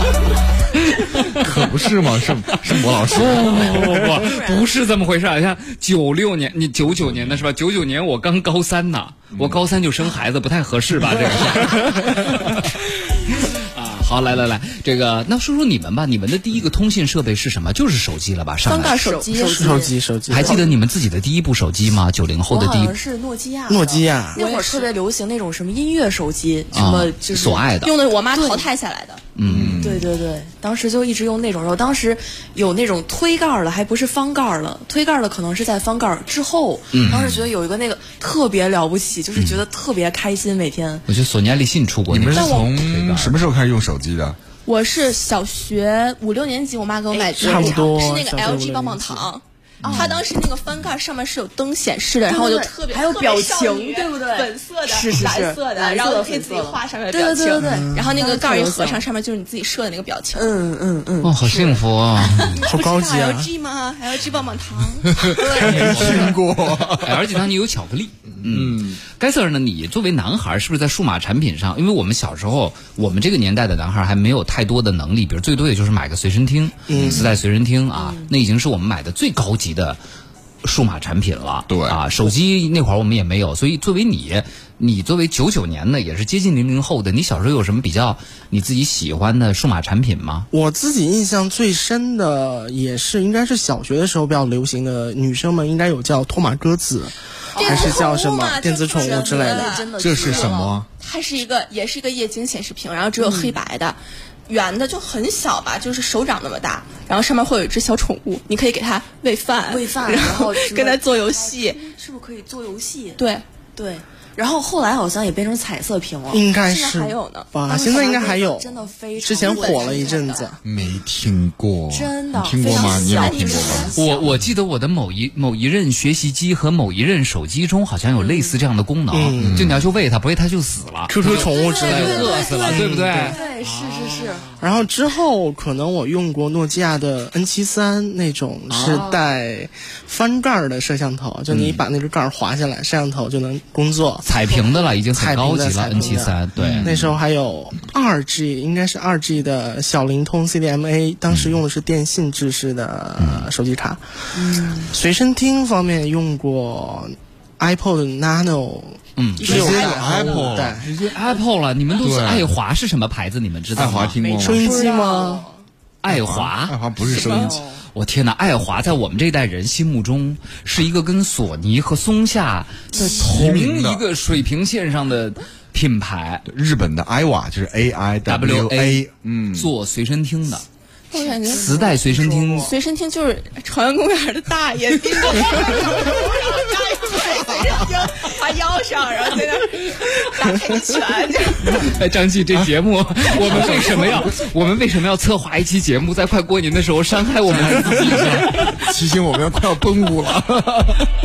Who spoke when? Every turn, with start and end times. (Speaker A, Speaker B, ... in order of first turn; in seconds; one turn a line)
Speaker A: 0.9-1.4
Speaker B: 1.3-4.2
Speaker A: 3.1-19.0
Speaker C: 3.5-4.7
Speaker B: 7.0-7.4
Speaker B: 9.3-9.6
Speaker B: 11.1-11.4
Speaker D: 18.7-19.8
Speaker C: 18.8-20.6
Speaker E: 19.4-20.7
Speaker A: 20.3-23.0
Speaker C: 22.5-27.7
Speaker E: 23.7-24.4
Speaker D: 24.4-24.9
Speaker A: 26.7-27.9
Speaker D: 27.8-29.2
Speaker C: 28.3-28.7
Speaker A: 29.4-29.9
Speaker B: 29.4-30.1
Speaker C: 29.7-41.1
Speaker A: 36.9-37.5
Speaker A: 39.4-39.6
Speaker A: 41.1-43.4
Speaker B: 42.1-44.4
Speaker D: 44.7-60.6
Speaker C: 47.1-48.0
Speaker E: 47.4-49.3
Speaker C: 49.8-50.2
Speaker B: 49.8-50.2
Speaker C: 52.3-59.0
Speaker E: 57.6-58.1
Speaker C: 60.4-61.8
Speaker A: 61.2-62.6
Speaker D: 62.3-65.7
Speaker E: 62.6-63.5
Speaker B: 65.2-67.2
Speaker C: 65.4-66.3
Speaker A: 65.6-66.3
Speaker A: 67.0-80.0
Speaker B: 68.3-69.0
Speaker E: 76.9-77.3
Speaker B: 76.9-77.2
Speaker C: 77.9-78.3
Speaker A: 80.6-90.5
Speaker B: 81.7-82.0
Speaker E: 90.5-99.9
Speaker C: 97.5-98.2
Speaker D: 97.6-111.8
Speaker C: 98.9-100.8
Speaker B: 100.0-100.9
Speaker C: 103.2-103.6
Speaker C: 109.7-113.2
Speaker D: 113.2-113.4
Speaker C: 113.8-116.4
Speaker E: 116.3-120.6
Speaker D: 116.6-117.5
Speaker C: 117.7-120.5
Speaker D: 119.4-120.1
Speaker B: 120.6-124.0
Speaker C: 121.9-124.4
Speaker D: 122.6-124.0
Speaker A: 124.0-133.4
Speaker C: 128.2-128.6
Speaker E: 129.1-129.7
Speaker B: 129.4-129.9
Speaker E: 131.1-133.4
Speaker C: 131.3-134.6
Speaker D: 131.7-132.7
Speaker E: 134.6-144.2
Speaker A: 138.7-139.2
Speaker B: 141.5-141.8
Speaker A: 144.2-146.9
Speaker E: 145.1-154.0
Speaker B: 146.6-147.2
Speaker B: 151.3-151.6
Speaker A: 153.2-153.5
Speaker C: 154.3-155.0
Speaker E: 154.7-160.9
Speaker A: 159.2-159.7
Speaker B: 159.4-160.9
Speaker D: 159.5-160.4
Speaker A: 160.8-164.2
Speaker B: 162.0-162.5
Speaker B: 163.8-164.8
Speaker C: 164.2-165.5
Speaker E: 164.4-165.5
Speaker A: 166.0-166.8
Speaker B: 166.1-167.6
Speaker D: 167.0-167.6
Speaker C: 167.0-167.9
Speaker A: 167.9-176.5
Speaker C: 172.9-173.2
Speaker B: 173.0-174.1
Speaker B: 176.5-179.7
Speaker A: 178.2-180.7
Speaker D: 181.1-181.8
Speaker C: 181.2-182.7
Speaker A: 181.5-182.7
Speaker D: 182.6-191.9
Speaker A: 191.6-198.8
Speaker B: 193.3-194.3
Speaker B: 197.6-201.1